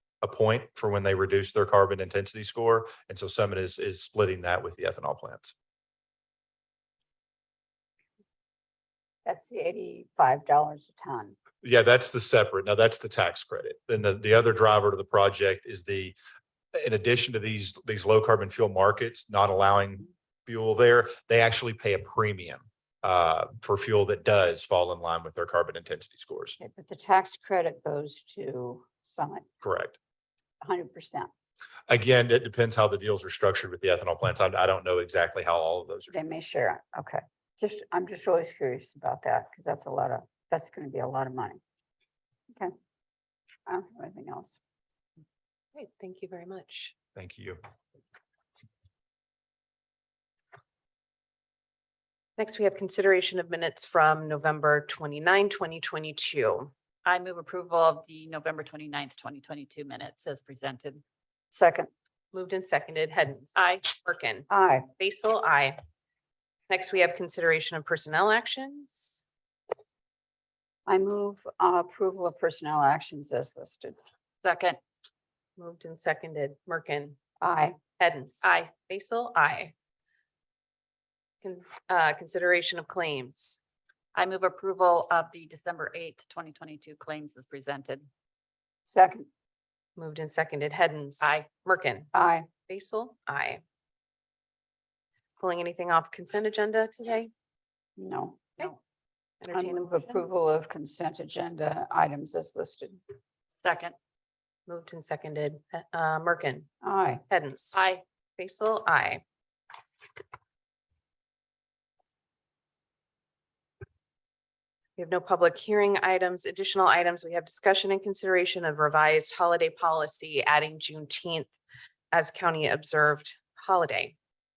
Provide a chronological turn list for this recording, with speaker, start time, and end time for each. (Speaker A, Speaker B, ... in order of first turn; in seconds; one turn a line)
Speaker A: 0.2-5.5
Speaker B: 9.2-11.4
Speaker A: 11.6-16.1
Speaker A: 16.7-26.6
Speaker B: 26.6-29.4
Speaker A: 29.6-29.9
Speaker B: 30.6-31.3
Speaker A: 31.9-36.2
Speaker B: 36.1-41.6
Speaker B: 43.7-44.6
Speaker C: 45.7-46.9
Speaker A: 47.1-47.6
Speaker C: 52.4-56.7
Speaker D: 57.0-61.0
Speaker B: 61.5-61.9
Speaker C: 62.3-65.8
Speaker D: 63.5-63.9
Speaker B: 64.5-64.9
Speaker C: 66.7-69.2
Speaker B: 70.8-74.0
Speaker D: 74.4-74.8
Speaker C: 75.6-77.2
Speaker B: 77.4-77.8
Speaker C: 78.0-79.7
Speaker D: 78.4-78.7
Speaker C: 81.4-83.6
Speaker D: 84.1-88.1
Speaker B: 88.8-89.3
Speaker C: 90.0-92.1
Speaker D: 91.2-91.5
Speaker B: 92.1-92.5
Speaker C: 92.7-93.6
Speaker C: 95.4-97.3
Speaker B: 98.0-98.8
Speaker C: 99.4-100.2
Speaker B: 99.5-103.0
Speaker D: 103.6-103.9
Speaker C: 104.7-106.7
Speaker B: 106.8-107.2
Speaker C: 107.3-107.8
Speaker D: 107.7-108.0
Speaker C: 108.4-109.2
Speaker C: 115.0-121.5
Speaker C: 122.1-124.2